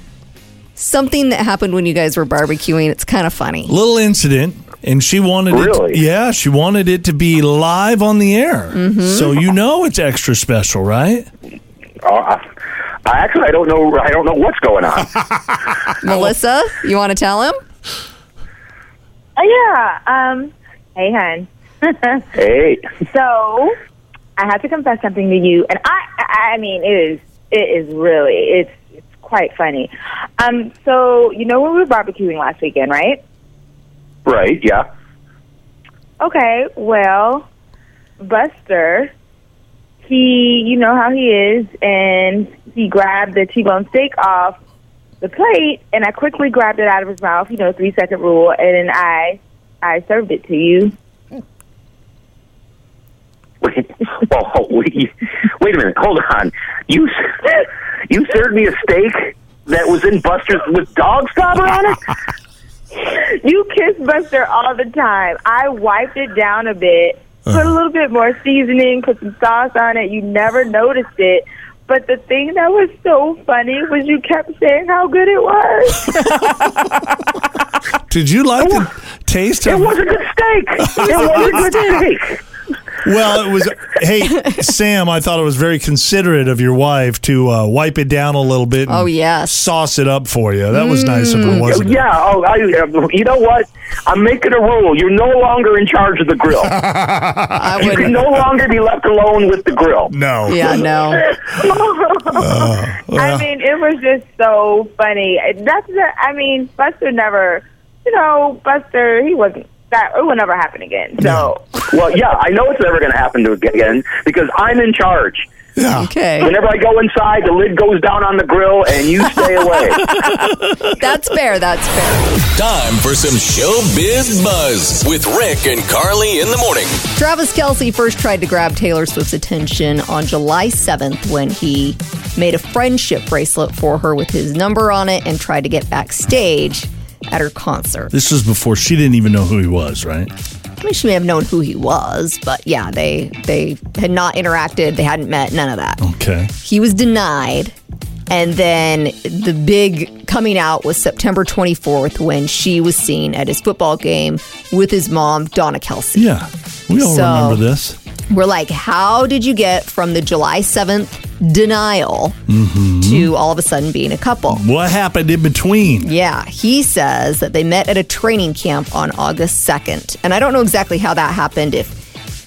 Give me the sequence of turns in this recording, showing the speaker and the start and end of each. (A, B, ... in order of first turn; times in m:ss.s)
0:00.8-0:03.7 A
0:03.7-0:11.3 B
0:05.5-0:06.0 C
0:08.7-0:09.4 A
0:12.0-0:12.4 C
0:13.0-0:15.2 C
0:16.0-0:17.6 A
0:19.4-0:22.3 D
0:22.4-0:22.8 C
0:23.0-0:23.8 D
0:24.4-0:33.2 D
0:34.3-0:34.9 C
0:36.2-0:37.5 D
0:38.2-0:39.1 D
0:40.1-0:44.6 D
0:45.2-0:50.9 D
0:53.6-1:02.0 C
1:03.0-1:16.5 D
1:16.2-1:16.6 B
1:18.1-1:20.0 B
1:18.6-1:18.9 C
1:19.6-1:22.4 C
1:20.8-1:22.0 B
1:23.0-1:32.0 B
1:28.9-1:29.6 A
1:30.7-1:31.7 A
1:31.6-1:36.8 C
1:36.8-1:38.3 B
1:37.6-1:38.2 A
1:37.8-1:40.1 C
1:40.1-1:41.3 B
1:40.5-1:41.3 A
1:41.5-1:51.6 D
1:42.3-1:43.5 B
1:51.2-1:51.5 B
1:51.9-1:55.5 C
1:55.8-1:56.1 B
1:56.0-1:56.5 A
1:56.4-2:00.2 C
2:00.0-2:00.9 B
2:00.2-2:02.3 A
2:02.6-2:07.0 E
2:07.2-2:18.1 A
2:18.1-2:20.3 B
2:20.8-2:26.0 A
2:26.0-2:26.5 B
2:26.6-2:27.7 A
2:28.3-2:36.4 A
2:36.2-2:38.0 B
2:37.0-2:37.6 A
2:38.3-2:42.4 A
2:42.5-2:43.3 B
2:43.0-2:44.6 A
2:44.5-2:46.1 B
2:46.0-2:52.0 A